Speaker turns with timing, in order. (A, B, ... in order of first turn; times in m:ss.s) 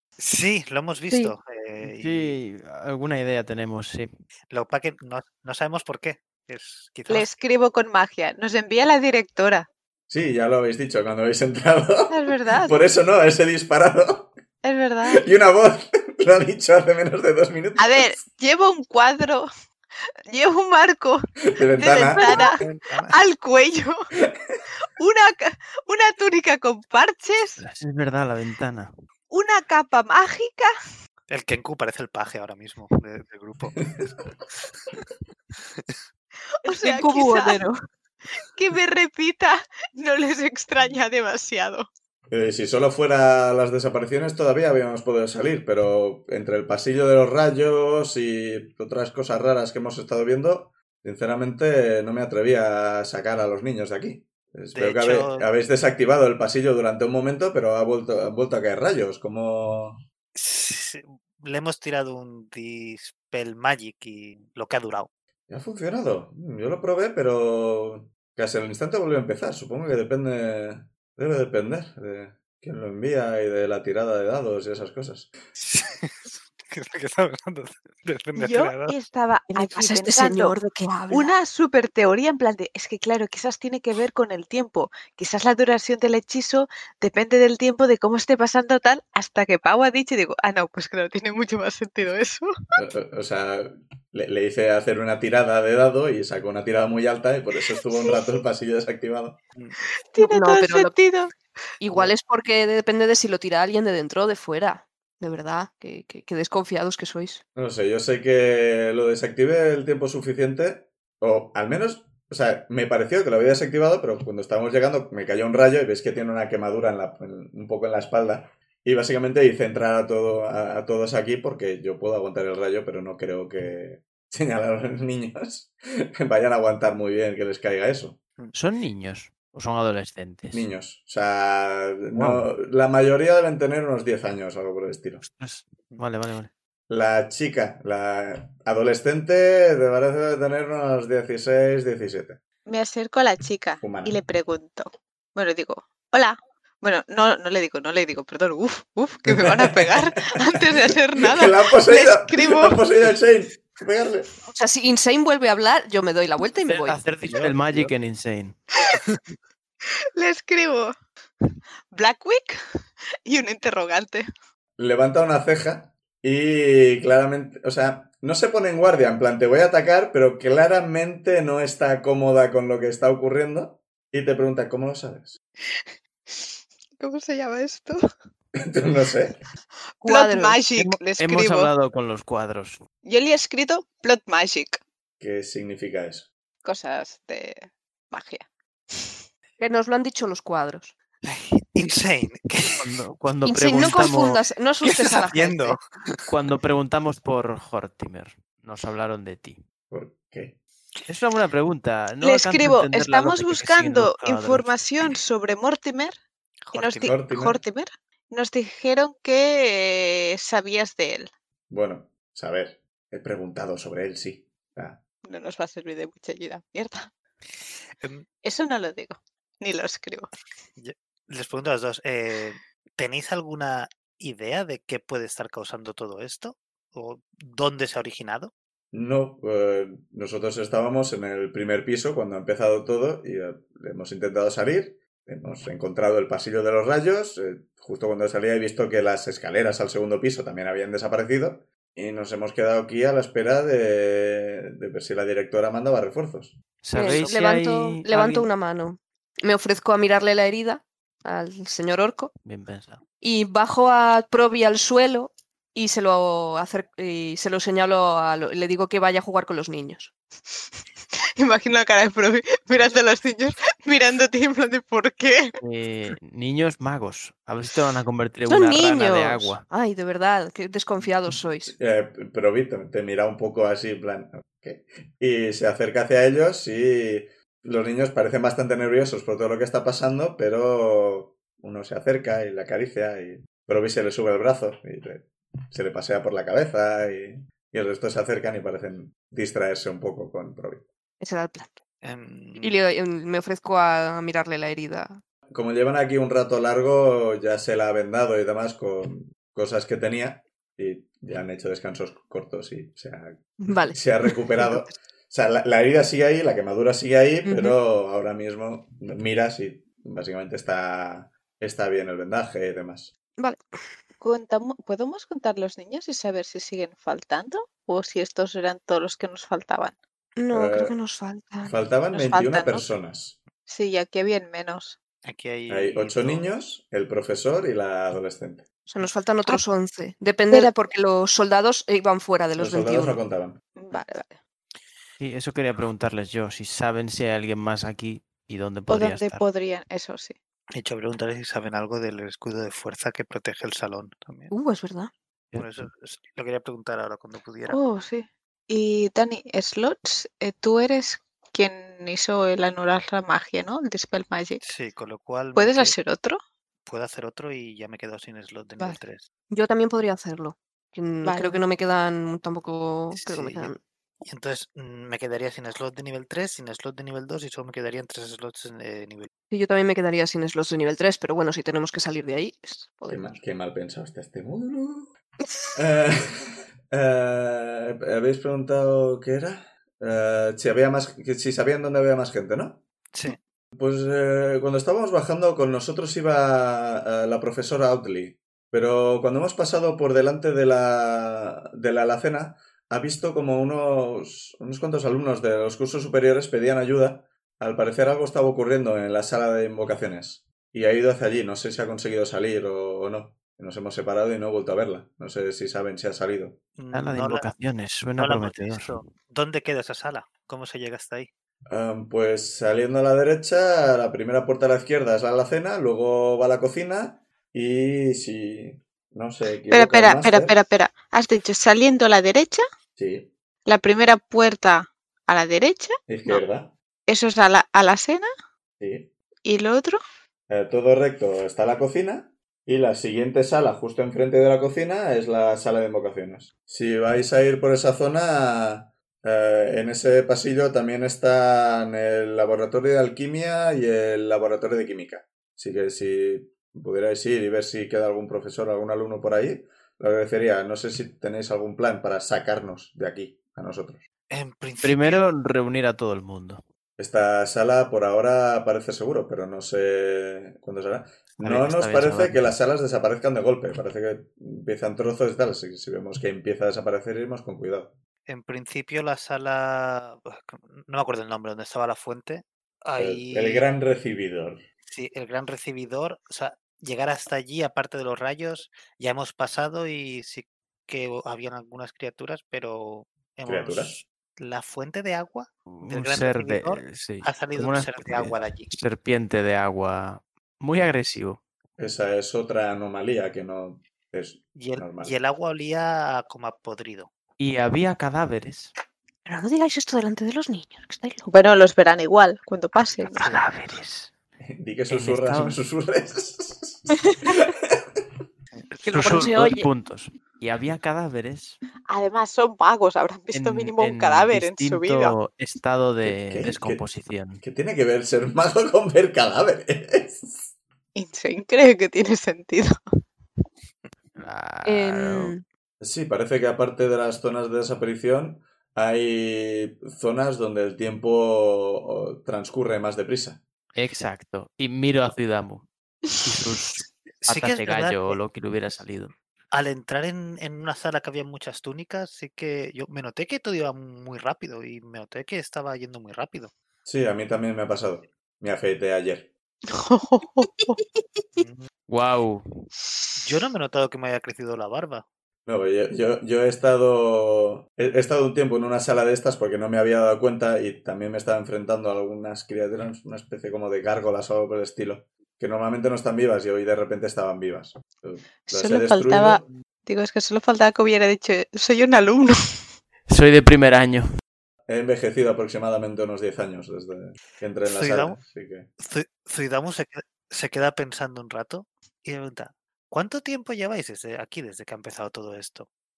0:00.2-0:02.4 A
0:01.8-0:04.1 B
0:04.5-0:07.3 A
0:07.1-0:09.7 C
0:10.1-0:14.3 D
0:12.1-0:12.7 C
0:14.6-0:15.2 C
0:15.0-0:18.2 D
0:17.8-0:19.5 C
0:20.3-0:24.1 C
0:21.5-0:22.4 D
0:22.2-0:23.2 A
0:25.0-0:27.6 C
0:27.6-0:28.9 B
0:29.3-0:30.7 C
0:31.3-0:33.8 A
0:36.6-0:37.6 C
0:36.6-0:37.8 E
0:38.4-0:41.9 C
0:42.3-1:00.0 D
0:54.7-0:55.5 A
1:00.3-1:05.1 A
1:05.5-1:15.3 D
1:15.5-1:18.9 A
1:18.4-1:20.6 C
1:19.5-1:21.3 E
1:21.1-1:32.5 C
1:32.8-1:39.4 D
1:37.9-1:38.4 C
1:40.1-1:41.3 C
1:40.2-1:41.0 E
1:41.8-1:47.4 E
1:47.6-2:08.2 D
2:08.5-2:10.6 B
2:10.5-2:15.2 D
2:12.1-2:12.4 B
2:15.2-2:16.5 B
2:16.9-2:22.4 D
2:22.7-2:32.8 C
2:23.8-2:24.1 D
2:31.3-2:34.3 D
2:34.5-2:37.0 E
2:36.6-2:38.6 B
2:37.3-2:37.9 A
2:38.9-2:39.2 A
2:40.2-2:40.9 C
2:41.9-2:42.6 C
2:43.2-2:44.2 C
2:44.8-2:55.4 D
2:55.7-2:58.0 C
2:58.6-2:59.4 D
3:00.0-3:01.7 C
3:00.0-3:00.6 E
3:00.7-3:02.8 B
3:03.0-3:04.8 C
3:05.2-3:06.3 D
3:06.6-3:09.1 C
3:09.6-3:10.9 E
3:11.2-3:12.9 A
3:12.8-3:14.4 B
3:13.4-3:15.8 E
3:14.8-3:16.3 A
3:16.3-3:19.6 B
3:19.9-3:20.5 D
3:21.1-3:25.2 B
3:22.2-3:26.2 C
3:26.7-3:27.1 A
3:26.7-3:31.3 C
3:27.0-3:27.6 D
3:31.7-3:35.0 D
3:35.2-3:37.1 C
3:38.0-3:38.2 A
3:38.4-3:40.3 C
3:40.8-3:48.5 A
3:48.9-4:06.6 D
4:06.8-4:08.5 B
4:06.9-4:12.3 E
4:12.4-4:13.0 B
4:13.2-4:20.1 E
4:21.4-4:25.5 C
4:25.6-4:29.6 B
4:28.5-4:31.7 E
4:31.7-4:50.9 D
4:51.2-4:51.8 E
4:52.0-4:52.7 A
4:52.6-4:55.2 E
4:55.5-5:13.1 D
5:03.6-5:04.8 E
5:07.4-5:07.8 E
5:13.4-5:13.6 E
5:14.2-5:20.0 C
5:20.4-5:21.7 E
5:20.5-5:21.0 D
5:21.6-5:23.4 D
5:22.1-5:22.9 C
5:23.7-5:25.0 C
5:25.2-5:26.5 A
5:25.7-5:28.6 D
5:28.8-5:33.2 E
5:32.6-5:33.6 D
5:33.8-5:34.4 C
5:35.2-5:39.4 B
5:38.9-5:40.4 C
5:40.7-5:44.5 A
5:44.5-5:45.1 E
5:45.5-5:45.9 B
5:45.6-5:47.8 A
5:47.7-5:54.6 C
5:54.6-5:56.0 A
5:55.5-5:56.4 C
5:56.8-5:59.3 A
5:59.5-6:03.8 E
6:01.2-6:01.6 C
6:03.1-6:03.7 A
6:04.2-6:09.3 A
6:09.5-6:13.3 E
6:13.1-6:15.1 D
6:15.8-6:22.8 D
6:23.7-6:46.6 D
6:46.8-6:47.5 A
6:46.9-6:49.0 B
6:48.2-6:51.3 A
6:51.7-7:00.5 D
6:59.7-7:02.6 C
7:03.0-7:03.3 D
7:03.6-7:06.4 C
7:06.1-7:06.7 D
7:07.1-7:08.3 C
7:08.8-7:09.1 D
7:09.4-7:10.0 C
7:10.5-7:34.0 D
7:34.3-7:35.2 A
7:34.8-7:36.6 B
7:37.0-7:47.9 D
7:41.4-7:42.4 B
7:48.3-7:53.7 A
7:53.0-7:54.6 D
7:54.9-8:08.7 A
8:03.4-8:04.0 D
8:05.7-8:11.4 B
8:11.8-8:15.2 D
8:14.5-8:17.1 A
8:17.4-8:18.7 B
8:19.2-8:21.3 E
8:21.3-8:23.2 C
8:23.1-8:24.1 B
8:24.4-8:28.0 D
8:24.9-8:25.6 B
8:28.5-8:29.4 A
8:28.8-8:31.6 B
8:29.0-8:29.4 C
8:29.1-8:29.6 E
8:31.9-8:35.1 C
8:33.3-8:37.4 B
8:36.0-8:36.8 D
8:37.4-8:40.5 D
8:40.9-8:42.7 C
8:44.2-8:45.3 B
8:44.6-8:45.4 E
8:45.8-8:53.4 D
8:53.7-8:59.1 B
8:57.2-8:58.2 A
8:59.5-9:06.5 A
9:06.8-9:09.3 D
9:09.7-9:10.8 C
9:11.4-9:11.7 A
9:11.9-9:12.7 B
9:13.2-9:15.0 A
9:15.4-9:29.4 D
9:28.5-9:32.6 C
9:33.1-9:34.0 B
9:34.7-9:38.7 D
9:37.6-9:38.2 A
9:38.8-9:45.7 A